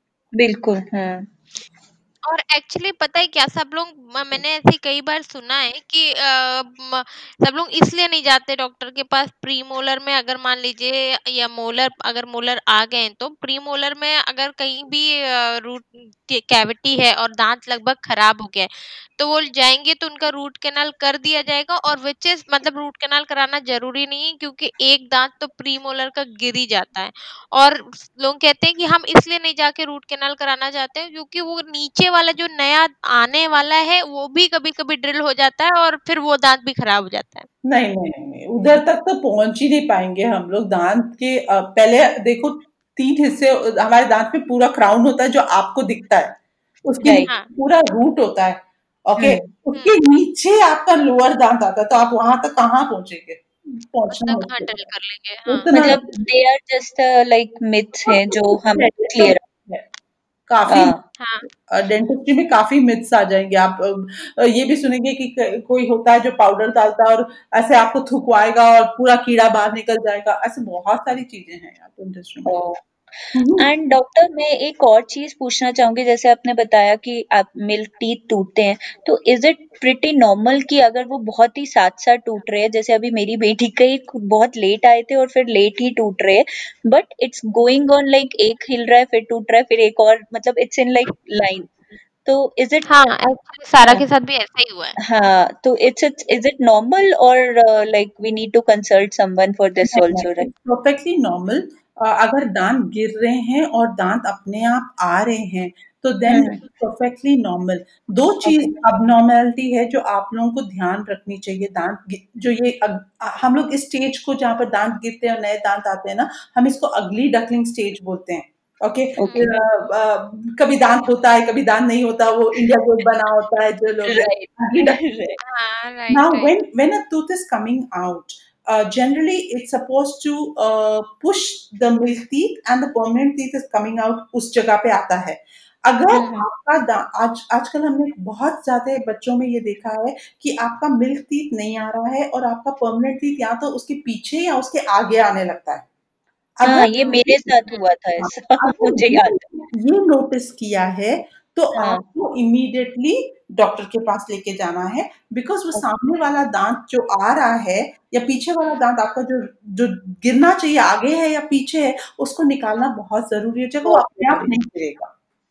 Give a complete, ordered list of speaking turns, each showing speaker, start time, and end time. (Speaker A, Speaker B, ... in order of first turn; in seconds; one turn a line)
Speaker A: 0.3-1.3
Speaker B: 2.2-37.5
Speaker C: 37.6-54.7
Speaker A: 47.0-47.3
Speaker A: 49.2-49.5
Speaker B: 54.1-55.9
Speaker C: 55.5-56.1
Speaker A: 55.7-59.4
Speaker C: 58.0-59.8
Speaker C: 60.5-60.9
Speaker A: 60.7-61.0
Speaker B: 61.2-61.5
Speaker C: 61.7-72.5
Speaker A: 72.5-72.8
Speaker C: 73.3-73.7
Speaker A: 73.6-92.9
Speaker B: 92.8-95.0
Speaker A: 95.0-100.5
Speaker C: 99.9-125.0
Speaker A: 106.3-106.6
Speaker A: 108.4-108.8
Speaker A: 119.2-119.5
Speaker B: 119.2-119.5
Speaker A: 124.0-125.4
Speaker B: 125.4-126.5
Speaker C: 126.1-145.8
Speaker A: 136.1-136.4
Speaker C: 146.6-147.6
Speaker A: 146.6-149.4
Speaker B: 147.0-147.9
Speaker C: 148.2-165.1
Speaker A: 151.8-152.0
Speaker A: 163.8-164.5